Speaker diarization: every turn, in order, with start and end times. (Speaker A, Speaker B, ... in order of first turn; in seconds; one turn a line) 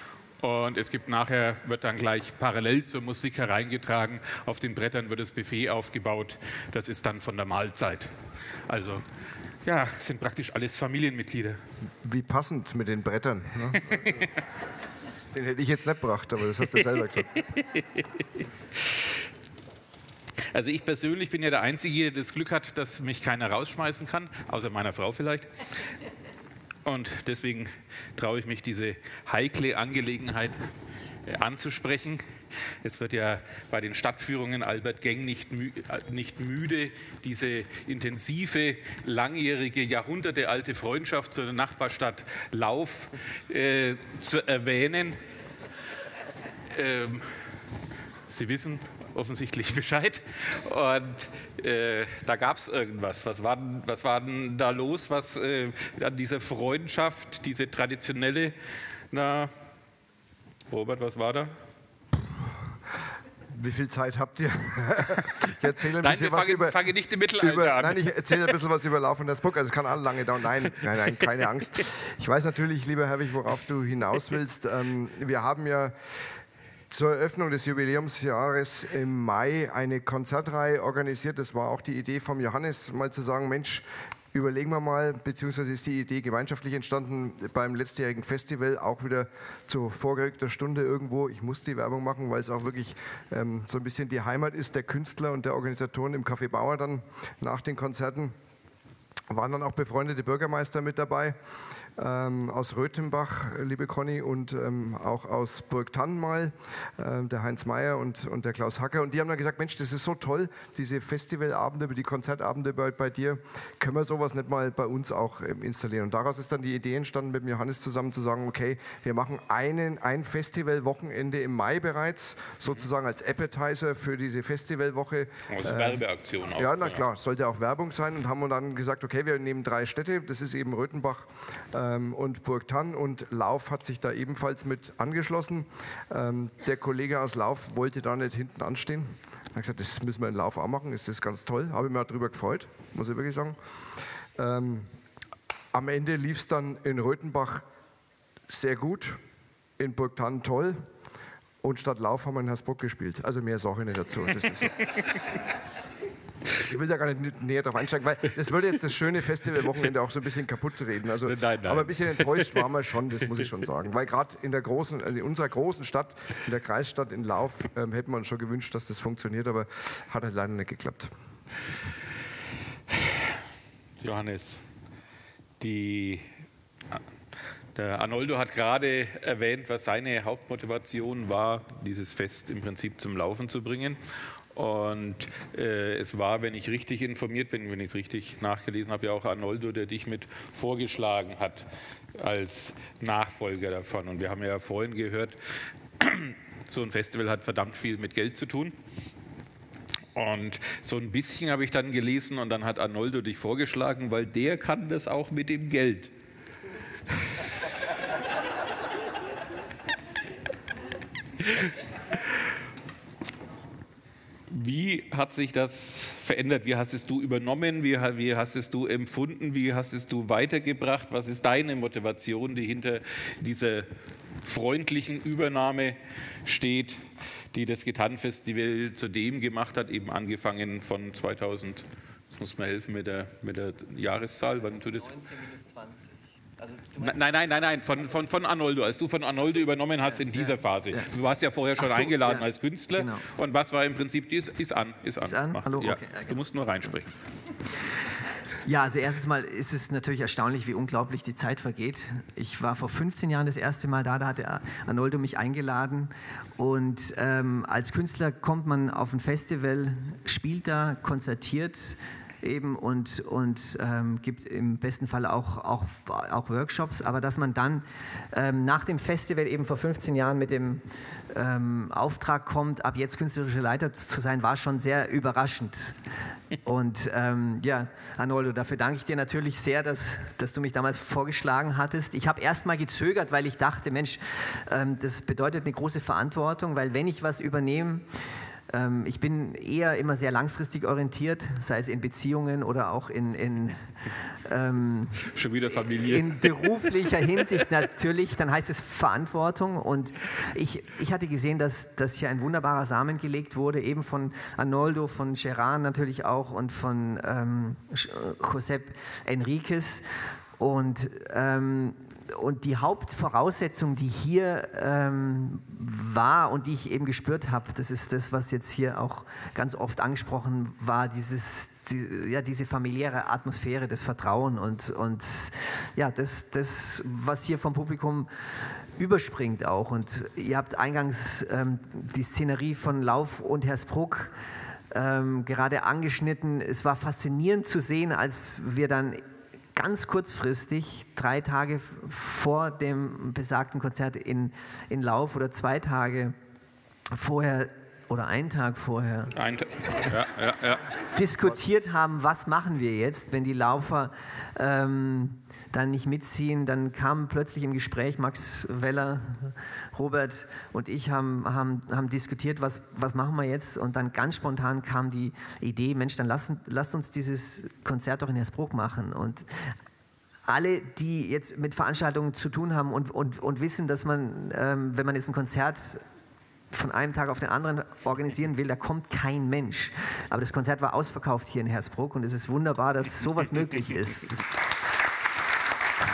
Speaker A: 0.4-8.2
Speaker A: 8.7-9.1
Speaker A: 9.7-11.6
Speaker B: 12.0-14.1
Speaker A: 13.9-14.3
Speaker B: 15.3-17.5
Speaker A: 17.3-19.2
Speaker A: 20.4-25.5
Speaker A: 26.9-30.6
Speaker A: 31.3-32.2
Speaker A: 32.8-45.2
Speaker A: 46.7-47.4
Speaker A: 48.3-58.5
Speaker A: 59.1-59.5
Speaker A: 60.7-61.5
Speaker B: 63.5-75.9
Speaker A: 65.3-68.5
Speaker B: 76.9-98.3
Speaker B: 99.3-101.4
Speaker B: 102.0-126.0
Speaker A: 125.5-127.0
Speaker B: 126.5-143.6
Speaker B: 144.4-144.9
Speaker B: 145.7-147.7
Speaker B: 148.5-149.2
Speaker B: 149.8-150.8
Speaker B: 151.6-154.8
Speaker B: 156.6-171.1
Speaker A: 161.2-162.6
Speaker A: 172.9-173.2
Speaker A: 174.0-174.6
Speaker A: 175.6-176.3
Speaker A: 177.8-184.0
Speaker A: 184.5-195.4
Speaker A: 196.0-198.8
Speaker A: 200.2-206.1
Speaker A: 214.5-223.9
Speaker A: 224.4-235.3
Speaker C: 235.3-236.1
Speaker C: 236.6-237.0
Speaker A: 237.0-247.1
Speaker C: 240.2-241.1
Speaker C: 241.8-243.3
Speaker C: 245.2-246.4
Speaker C: 248.7-276.0
Speaker C: 276.6-288.1
Speaker C: 288.7-293.8
Speaker C: 294.4-310.1
Speaker A: 295.2-296.7
Speaker C: 310.6-328.3
Speaker C: 329.0-334.3
Speaker C: 334.9-339.2
Speaker C: 339.8-346.4
Speaker C: 347.1-349.4
Speaker A: 349.3-351.0
Speaker C: 351.0-369.5
Speaker C: 370.5-376.0
Speaker C: 376.7-384.4